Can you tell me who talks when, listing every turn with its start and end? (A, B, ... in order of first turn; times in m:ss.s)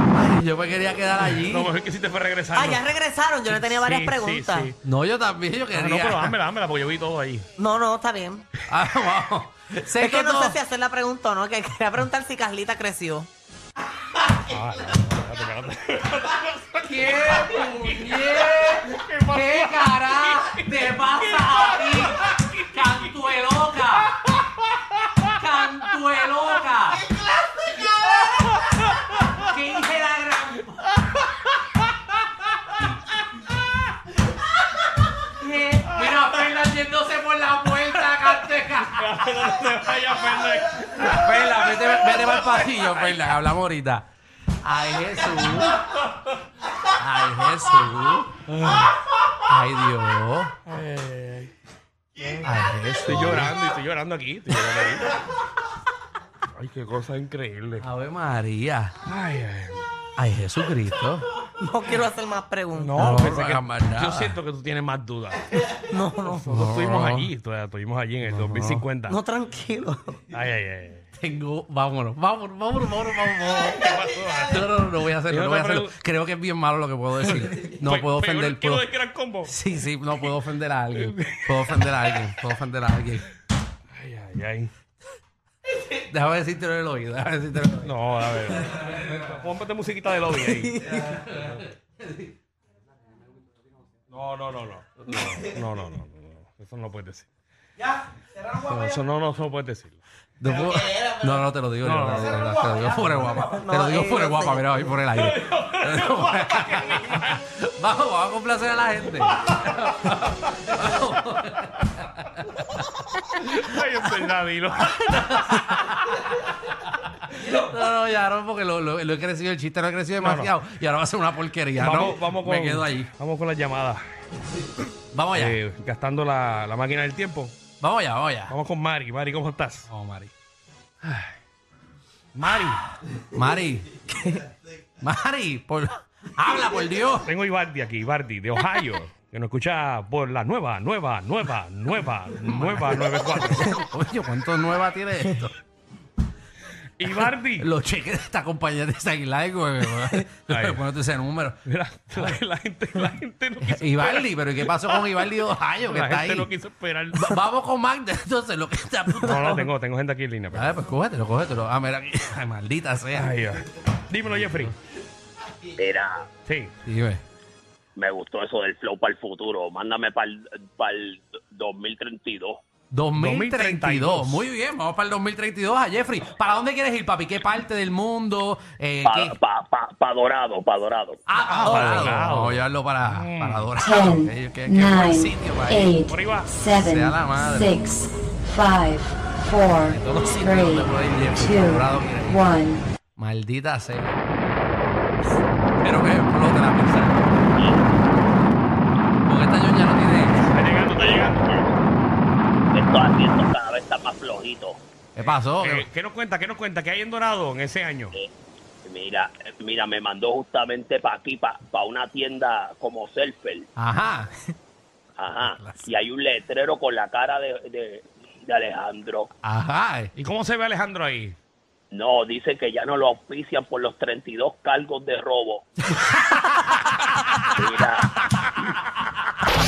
0:00.1-0:01.7 A
0:01.3-0:02.8 B
0:02.5-0:04.7 C
0:03.5-0:04.8 B
0:04.8-0:06.4 A
0:05.7-0:07.4 B
0:07.6-0:08.4 C
0:08.7-0:10.6 A
0:10.0-0:13.3 C
0:14.4-0:23.2 B
0:16.8-0:24.2 A
0:24.2-0:25.3 B
0:25.2-0:27.1 A
0:27.9-0:29.5 B
0:29.3-0:30.8 A
0:35.2-0:39.2 A
0:35.8-0:36.2 B
0:38.1-0:43.3 B
0:40.8-0:44.1 A
0:44.6-0:45.8 A
0:45.9-0:46.3 B
0:46.8-0:48.4 A
0:48.5-0:49.0 B
0:49.4-0:50.6 A
0:50.6-0:51.5 B
0:52.2-0:52.5 B
0:52.4-0:53.6 A
0:53.0-0:55.2 B
0:56.5-0:57.8 B
0:57.8-0:59.0 A
0:59.0-0:59.8 B
1:00.2-1:01.3 A
1:01.5-1:03.1 C
1:02.8-1:05.8 B
1:03.0-1:04.4 A
1:05.8-1:06.5 C
1:06.3-1:09.2 B
1:06.5-1:07.3 A
1:08.2-1:08.8 A
1:09.1-1:10.2 C
1:10.3-1:11.0 B
1:11.2-1:18.8 A
1:13.8-1:16.0 B
1:17.2-1:19.6 B
1:19.5-1:23.3 A
1:20.9-1:22.2 B
1:23.9-1:24.7 B
1:25.7-1:29.1 A
1:27.8-1:31.6 B
1:30.5-1:31.0 C
1:31.0-1:32.3 A
1:34.1-1:37.3 B
1:38.4-1:40.0 B
1:40.4-1:53.1 A
1:41.8-1:42.7 B
1:43.4-1:44.8 C
1:45.1-1:47.4 B
1:53.3-1:56.0 B
1:54.9-1:56.2 A
1:57.3-2:03.1 A
2:00.2-2:00.5 B
2:01.8-2:04.0 B
2:05.1-2:05.6 A
2:05.3-2:07.5 B
2:07.8-2:08.5 A
2:08.5-2:09.9 B
2:09.9-2:10.3 A
2:12.3-2:12.8 B
2:13.3-2:14.3 A
2:15.0-2:17.3 A
2:17.2-2:23.9 B
2:22.4-2:25.6 A
2:27.0-2:27.7 B
2:27.0-2:32.4 A
2:30.5-2:30.8 B
2:31.6-2:35.2 B
2:33.6-2:36.5 A
2:35.8-2:37.4 B
2:37.1-2:39.6 A
2:39.2-2:40.8 B
2:40.5-2:43.4 A
2:43.1-2:44.7 B
2:45.8-2:46.3 D
2:46.4-2:46.7 B
2:46.8-2:47.2 A
2:48.0-2:52.6 D
2:52.9-2:59.4 A
2:53.2-2:54.4 B
2:59.0-3:01.2 D
3:01.3-3:05.9 A
3:01.4-3:03.7 B
3:01.6-3:02.0 C
3:03.8-3:12.8 E
3:06.1-3:06.5 B
3:06.7-3:07.8 A
3:09.9-3:12.5 A
3:13.1-3:14.2 A
3:15.8-3:17.4 A
3:17.5-3:18.3 D
3:19.2-3:20.6 A
3:20.4-3:21.5 B
3:21.0-3:21.8 D
3:22.7-3:24.8 D
3:25.2-3:25.9 A
3:25.2-3:28.2 B
3:28.8-3:33.7 D
3:33.8-3:34.4 A
3:35.2-3:39.3 D
3:35.4-3:35.9 A
3:39.4-3:40.1 A
3:40.2-3:41.4 B
3:41.9-3:45.6 D
3:46.0-3:47.1 A
3:47.5-3:48.2 D